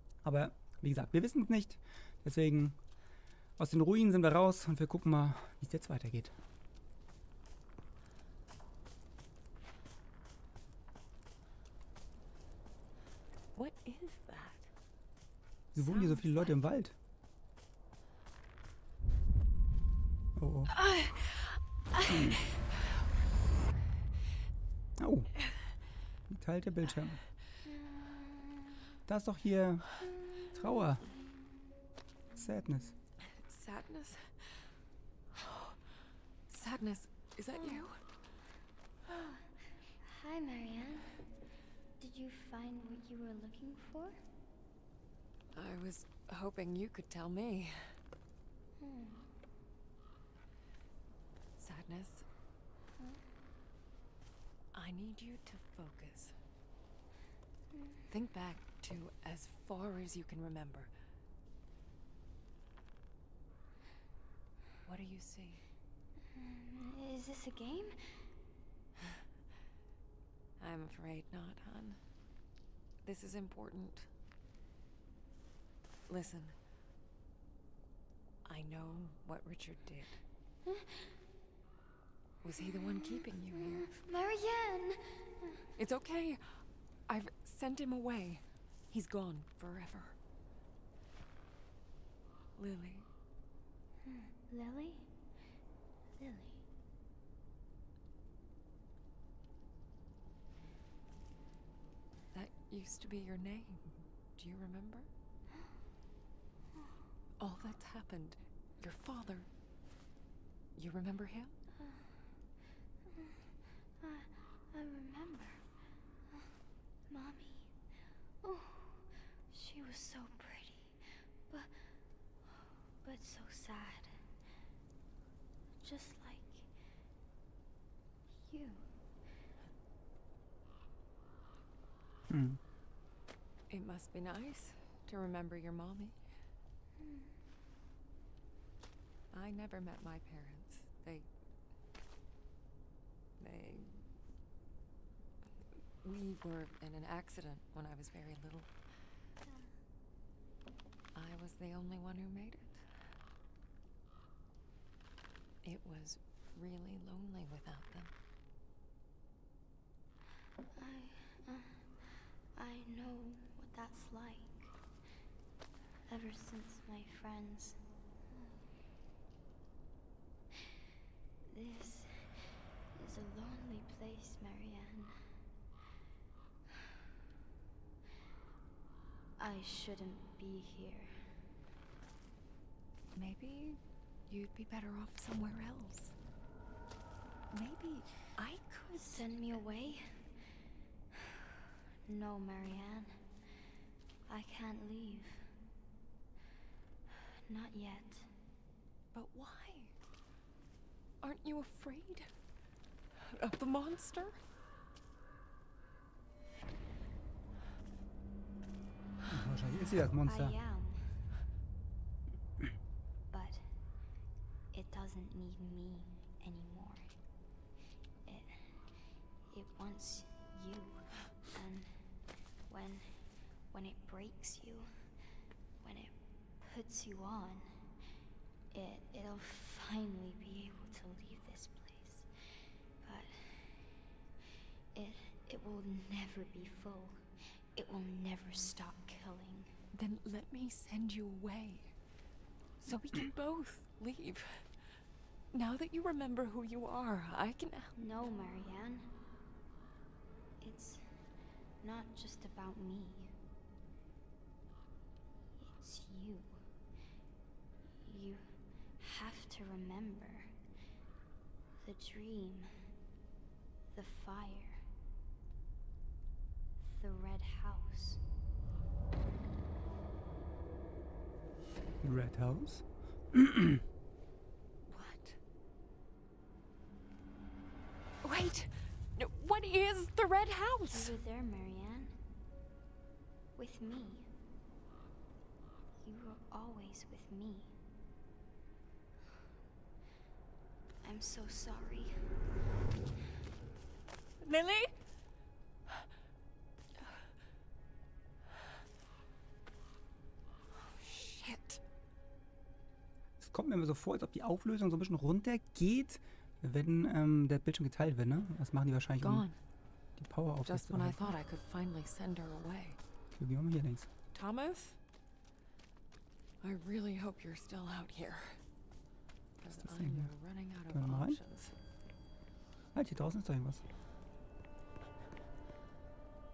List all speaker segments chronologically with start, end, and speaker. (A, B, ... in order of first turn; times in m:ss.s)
0:00.2-0:02.8 A
0:03.6-0:06.3 A
0:13.5-0:14.7 B
0:15.7-0:16.6 B
0:15.7-0:16.9 A
0:20.4-0:20.7 A
0:20.8-0:21.6 B
0:22.0-0:22.4 A
0:25.0-0:25.3 A
0:26.3-0:27.2 A
0:27.8-0:28.5 C
0:29.0-0:29.9 A
0:30.5-0:31.0 A
0:32.3-0:32.9 A
0:33.2-0:34.7 B
0:35.4-0:35.8 B
0:36.5-0:38.0 B
0:39.1-0:41.2 C
0:42.0-0:44.2 C
0:45.5-0:48.0 B
0:48.8-0:49.2 C
0:51.6-0:52.2 B
0:54.7-0:56.3 B
0:57.7-0:58.0 C
0:58.1-1:00.9 B
1:04.8-1:05.6 B
1:06.3-1:08.2 C
1:10.6-1:12.0 B
1:13.0-1:14.1 B
1:16.1-1:16.5 B
1:18.4-1:20.2 B
1:20.6-1:21.2 C
1:22.4-1:23.9 B
1:23.5-1:25.7 C
1:25.8-1:30.2 B
1:32.6-1:33.1 B
1:34.0-1:35.1 C
1:36.2-1:36.6 C
1:42.3-1:45.1 B
1:47.4-1:49.5 B
1:50.8-1:51.5 B
1:51.8-1:52.2 C
1:53.1-1:53.4 C
1:54.0-1:55.6 C
1:57.1-1:57.7 C
1:58.4-2:01.8 C
2:03.0-2:04.2 C
2:05.8-2:06.7 C
2:08.4-2:08.9 C
2:12.3-2:12.6 A
2:13.7-2:16.2 B
2:17.0-2:17.3 C
2:19.3-2:21.3 B
2:23.4-2:24.0 B
2:26.0-2:28.7 B
2:31.1-2:32.8 B
2:35.6-2:38.1 B
2:40.8-2:41.9 C
2:42.5-2:44.7 C
2:46.1-2:47.8 C
2:48.3-2:48.6 C
2:51.5-2:55.2 C
2:59.4-3:01.1 C
3:03.1-3:06.1 B
3:07.5-3:09.5 B
3:09.0-3:10.3 C
3:11.1-3:11.4 C
3:12.0-3:13.2 C
3:14.3-3:15.5 C
3:17.2-3:18.3 C
3:19.1-3:19.9 B
3:21.2-3:22.3 B
3:23.2-3:24.4 B
3:29.2-3:30.6 A
3:30.2-3:31.2 C
3:33.3-3:33.8 C
3:34.7-3:37.1 C
3:38.2-3:38.9 C
3:39.5-3:42.0 C
3:42.7-3:44.9 C
3:45.8-3:47.9 C
3:48.7-3:52.3 C
3:53.0-3:54.0 C
3:54.9-3:59.7 C
3:59.9-4:01.9 B
4:02.8-4:04.7 B
4:05.5-4:07.9 B
4:08.0-4:09.1 C
4:10.6-4:11.1 C
4:11.8-4:13.3 C
4:15.6-4:16.6 C
4:18.0-4:20.5 C
4:21.8-4:22.8 C
4:23.9-4:24.8 C
4:26.8-4:28.2 C
4:32.0-4:33.8 A
4:34.9-4:35.4 B
4:38.2-4:41.1 B
4:40.9-4:42.2 C
4:43.6-4:44.3 C
4:46.0-4:47.8 C
4:51.0-4:52.4 C
4:54.4-4:54.9 B
5:00.9-5:01.8 B
5:03.4-5:09.5 A
5:09.2-5:09.6 B
5:10.2-5:11.4 A
5:10.6-5:13.0 B
5:13.3-5:14.1 A
5:14.3-5:15.0 B
5:16.6-5:18.6 B
5:19.6-5:21.7 B
5:19.7-5:20.3 A
5:20.9-5:21.4 A
5:22.9-5:23.8 A